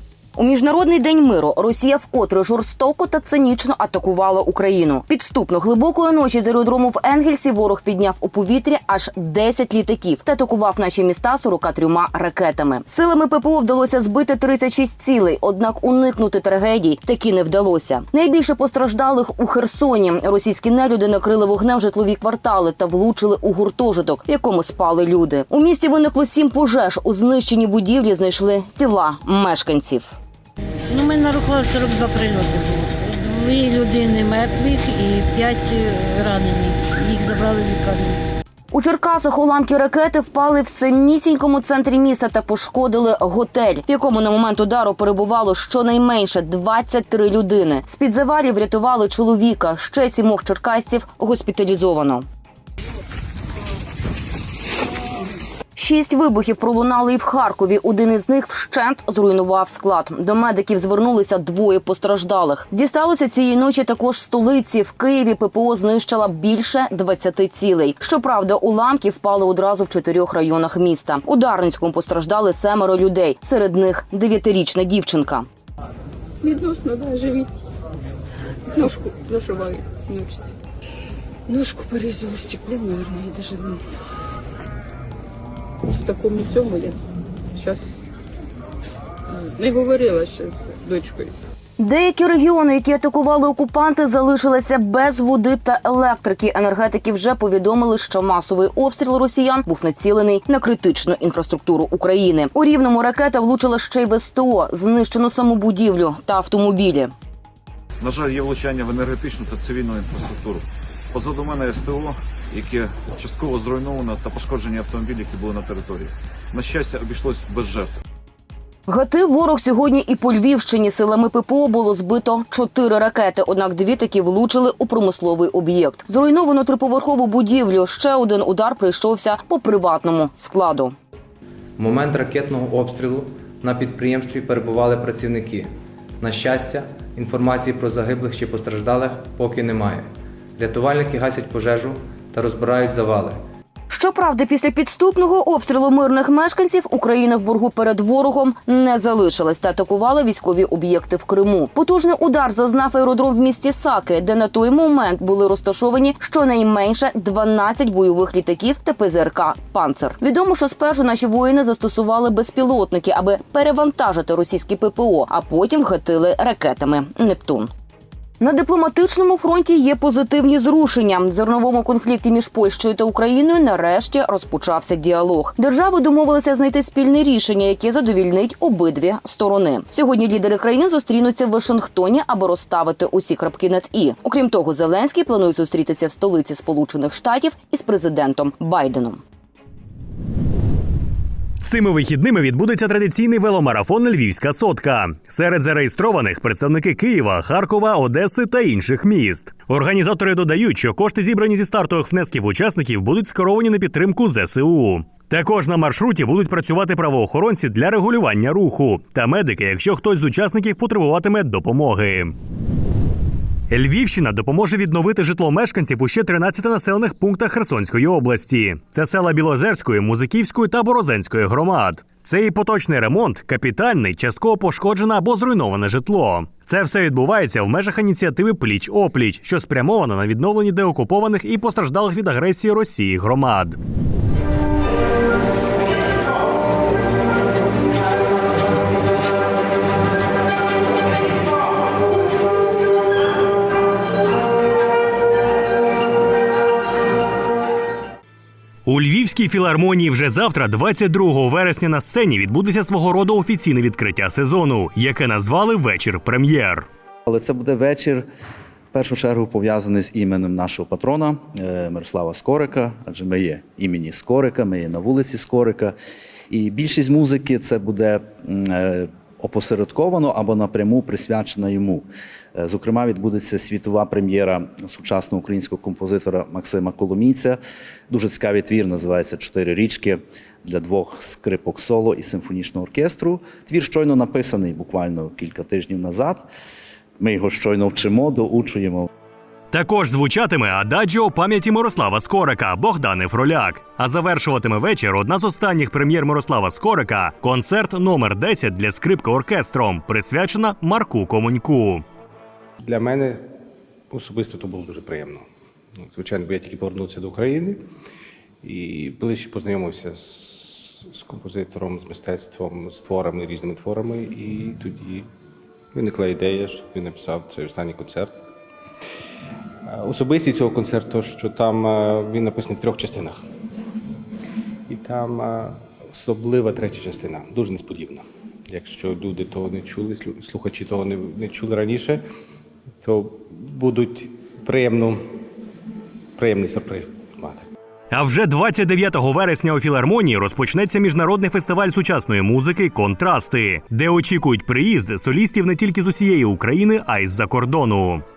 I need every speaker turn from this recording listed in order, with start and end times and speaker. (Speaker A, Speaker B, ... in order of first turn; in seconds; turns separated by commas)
Speaker A: 0.4-30.1, Speaker B: 30.9-38.2, Speaker A: 38.7-52.3, Speaker A: 55.8-75.5, Speaker C: 76.4-77.5, Speaker C: 78.7-80.5, Speaker C: 81.5-83.8, Speaker C: 85.8-87.0, Speaker C: 87.6-88.0, Speaker C: 89.3-91.3, Speaker A: 91.8-107.1, Speaker D: 108.0-117.9, Speaker A: 118.9-130.9, Speaker E: 131.8-143.4, Speaker A: 143.9-167.7, Speaker A: 168.4-189.2, Speaker F: 191.6-212.3, Speaker F: 213.7-233.8, Speaker F: 248.9-256.9, Speaker G: 257.3-258.3, Speaker G: 258.9-265.9, Speaker G: 266.5-286.5, Speaker G: 287.2-289.1, Speaker F: 289.7-302.0, Speaker H: 302.8-303.5, Speaker H: 304.1-305.5, Speaker H: 306.0-307.8, Speaker H: 308.6-315.3, Speaker H: 315.9-318.4, Speaker H: 319.9-323.4, Speaker H: 324.9-332.2, Speaker H: 333.0-335.4, Speaker H: 336.4-337.7, Speaker F: 338.1-348.2